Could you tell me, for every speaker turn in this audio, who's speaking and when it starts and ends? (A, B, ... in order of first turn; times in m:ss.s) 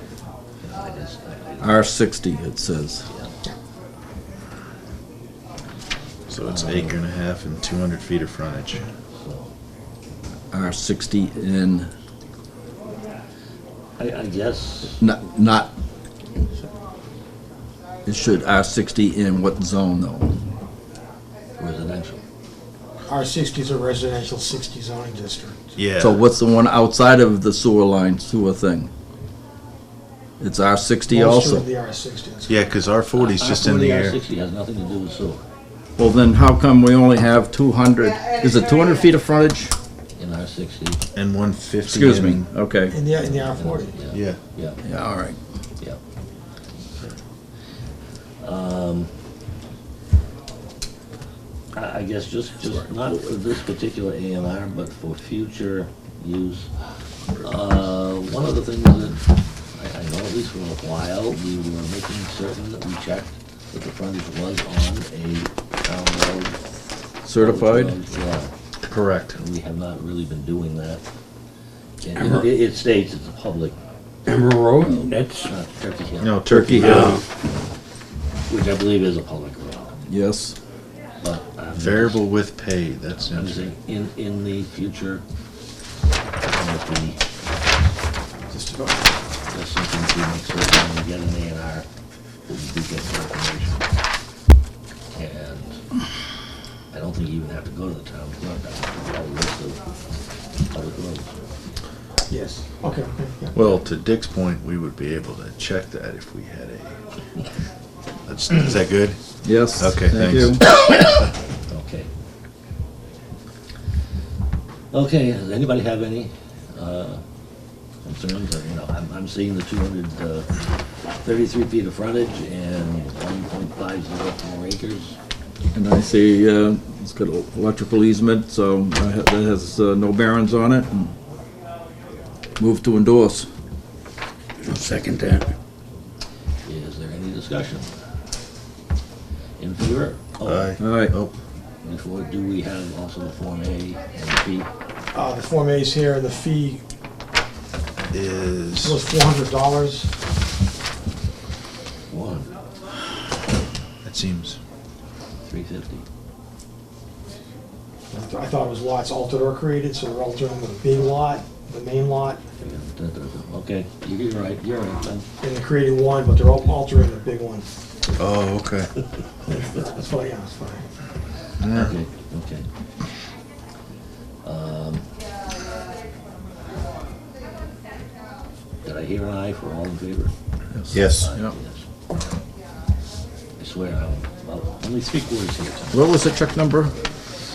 0:00.6-0:01.9 A
0:01.6-0:03.0 B
0:03.1-0:03.3 A
0:06.3-0:08.8 C
0:06.4-0:07.0 A
0:09.1-0:09.5 A
0:10.5-0:11.9 B
0:14.0-0:15.0 A
0:15.0-0:15.7 B
0:18.0-0:20.3 B
0:21.6-0:22.2 A
0:23.1-0:25.8 D
0:25.8-0:26.2 C
0:26.0-0:28.9 B
0:30.4-0:31.6 B
0:31.1-0:32.6 D
0:32.5-0:34.2 C
0:33.1-0:35.4 A
0:36.0-0:39.7 B
0:40.2-0:41.0 A
0:41.1-0:42.5 C
0:41.8-0:43.0 B
0:42.9-0:43.9 D
0:43.2-0:44.8 A
0:44.1-0:44.4 C
0:44.8-0:45.4 B
0:48.4-0:49.1 A
0:51.7-0:56.7 A
0:57.4-0:59.2 A
0:59.7-1:06.6 A
1:07.2-1:07.9 B
1:07.4-1:08.5 A
1:08.9-1:09.4 C
1:09.3-1:11.0 A
1:12.0-1:13.8 A
1:14.2-1:15.5 E
1:14.8-1:17.2 A
1:16.2-1:17.2 C
1:16.5-1:17.0 B
1:16.8-1:17.2 E
1:18.5-1:20.0 A
1:20.1-1:20.5 B
1:21.2-1:22.2 A
1:21.7-1:23.7 C
1:23.3-1:25.2 A
1:26.4-1:27.2 A
1:28.5-1:29.1 D
1:29.5-1:31.9 A
1:32.5-1:33.8 A
1:35.1-1:35.8 A
1:36.9-1:39.8 A
1:40.7-1:41.3 A
1:42.3-1:43.5 D
1:43.5-1:47.0 C
1:48.2-1:49.2 C
1:49.4-1:50.6 B
1:49.8-1:50.6 C
1:51.6-1:52.1 A
1:54.9-1:57.2 A
1:58.0-2:00.5 A
2:01.2-2:05.2 A
2:05.7-2:11.1 B
2:12.6-2:13.5 B
2:14.6-2:15.5 E
2:16.6-2:17.9 A
2:19.6-2:20.7 A
2:20.4-2:21.3 C
2:20.8-2:21.1 B
2:21.8-2:24.7 A
2:25.1-2:26.8 D
2:28.1-2:29.0 C
2:28.8-2:30.1 D
2:32.1-2:32.5 A
2:34.0-2:34.6 C
2:35.5-2:36.0 A
2:38.1-2:42.4 D
2:42.6-2:45.3 A
2:45.4-2:47.6 D
2:48.1-2:48.9 C
2:49.5-2:50.8 D
2:51.6-2:51.9 C
2:51.7-2:52.6 A
2:54.4-2:55.0 A
2:58.8-3:00.3 A
3:00.8-3:01.5 B
3:00.9-3:01.3 C
3:01.0-3:01.8 A
3:03.6-3:06.0 A
3:05.9-3:06.9 B